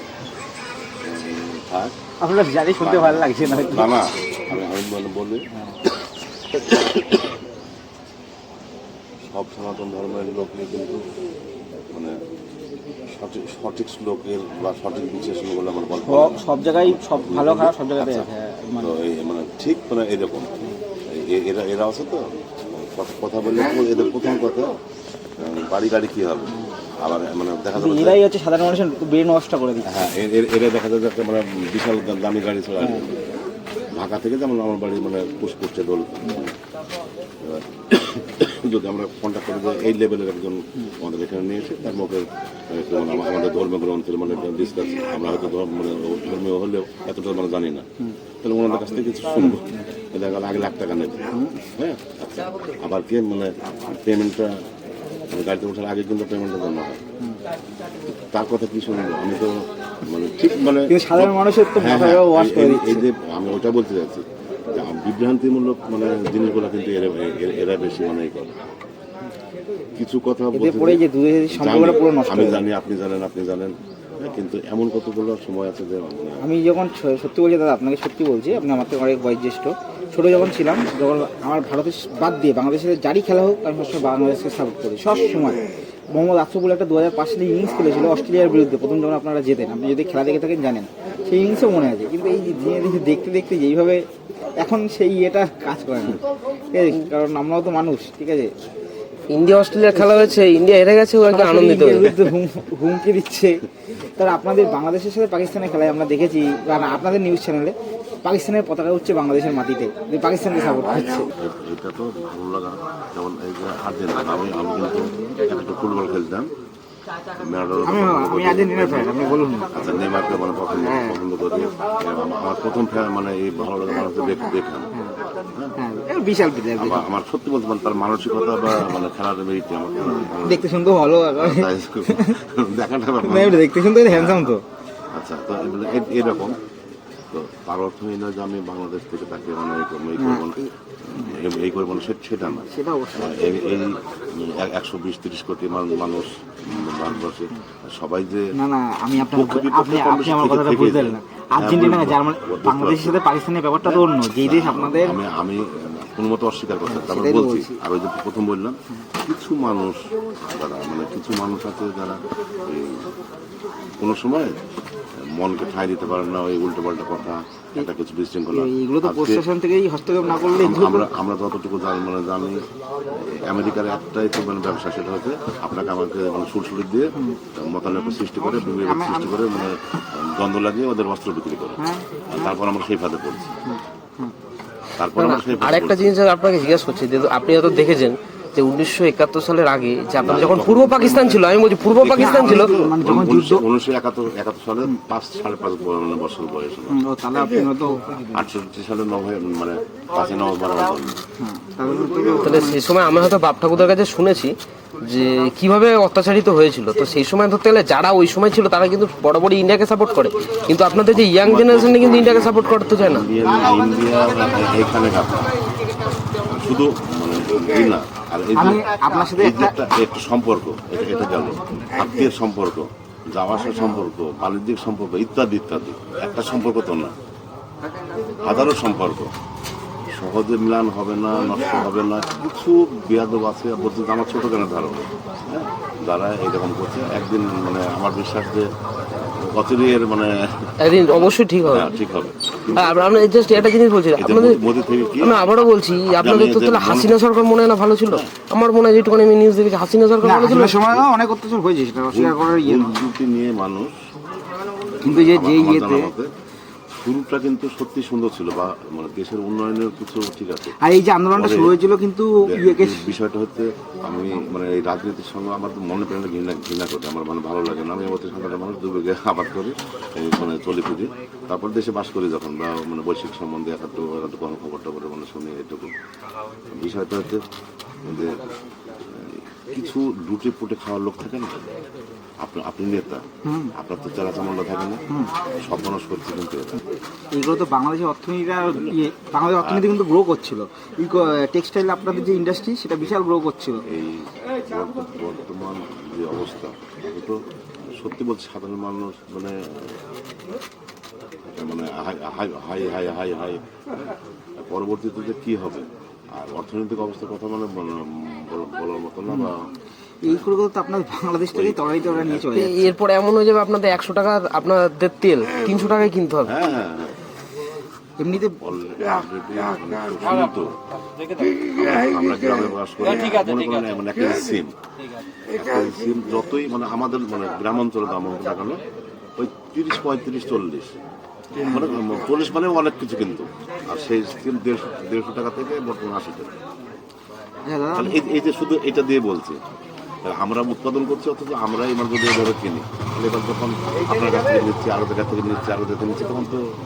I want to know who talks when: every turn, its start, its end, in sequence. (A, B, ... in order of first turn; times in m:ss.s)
0:01.0-0:01.9 A
0:02.2-0:04.0 B
0:02.8-0:05.4 A
0:06.5-0:07.3 A
0:09.3-0:11.1 A
0:13.1-0:18.3 A
0:16.0-0:18.9 B
0:18.8-0:20.5 A
0:21.1-0:24.7 A
0:25.4-0:28.2 A
0:27.7-0:30.0 B
0:29.9-0:33.3 A
0:33.9-0:36.6 A
0:37.4-0:47.9 A
0:48.4-0:54.6 A
0:51.3-0:51.7 B
0:55.3-0:57.0 A
0:58.3-1:08.6 A
1:00.9-1:03.1 B
1:10.0-1:16.4 A
1:10.5-1:12.6 B
1:16.4-1:25.6 B
1:26.1-1:34.0 B
1:34.6-1:38.5 B
1:39.3-1:42.2 C
1:41.3-1:43.6 B
1:44.2-1:51.3 B
1:51.4-1:56.5 A
1:57.4-2:04.9 A
1:57.8-1:59.7 B
2:00.8-2:01.2 B
2:05.8-2:07.0 B
2:06.8-2:10.7 A
2:10.0-2:12.3 B
2:11.4-2:14.5 A
2:13.2-2:14.6 B
2:15.1-2:16.6 A
2:17.3-2:28.5 A
2:20.2-2:20.7 B
2:22.5-2:23.5 B
2:28.6-2:35.2 B
2:29.2-2:33.2 A
2:33.8-2:43.1 A
2:36.9-2:37.8 B
2:44.0-2:44.6 A
2:45.2-2:49.4 A
2:48.5-2:51.1 B
2:50.5-2:52.6 A
2:53.3-3:01.8 A
2:58.6-2:59.4 B
3:01.8-3:02.6 B
3:02.3-3:03.6 A
3:03.7-3:04.3 B
3:05.0-3:06.1 A
3:05.2-3:12.8 C
3:10.2-3:17.0 A
3:12.2-3:13.6 B
3:16.9-3:18.3 B
3:18.3-3:21.2 A
3:21.4-3:22.8 B
3:22.4-3:33.3 C
3:31.4-3:35.6 A
3:36.4-3:47.1 A
3:38.6-3:39.7 B
3:48.4-3:49.3 A
3:50.2-3:58.7 A
3:59.4-4:00.7 A
4:00.8-4:01.9 C
4:01.7-4:02.8 A
4:02.7-4:04.6 C
4:04.2-4:05.4 A
4:05.2-4:10.8 C
4:06.1-4:07.2 A
4:08.1-4:08.3 A
4:10.2-4:13.1 B
4:12.1-4:14.0 A
4:15.0-4:16.1 B
4:15.0-4:16.3 A
4:16.9-4:20.8 A
4:20.8-4:23.1 B
4:21.3-4:21.8 A
4:22.5-4:35.9 A
4:36.7-4:37.4 A
4:38.0-4:38.4 A
4:39.0-4:41.6 A
4:42.4-4:43.2 A
4:43.5-4:43.7 B
4:43.8-4:45.0 A
4:45.6-4:46.8 A
4:47.4-4:53.8 B
4:49.6-4:49.9 A
4:53.9-4:57.4 A
4:57.9-5:00.0 A
5:01.6-5:03.6 A
5:04.6-5:09.6 A
5:10.2-5:12.9 B
5:11.5-5:12.5 A
5:12.5-5:16.5 C
5:16.4-5:17.2 A
5:18.2-5:18.6 B
5:18.6-5:20.8 A
5:21.6-5:24.7 A
5:25.5-5:28.8 A
5:29.4-5:30.9 A
5:31.6-5:36.5 A
5:37.6-5:38.3 B
5:38.0-5:39.6 A
5:40.2-5:46.6 A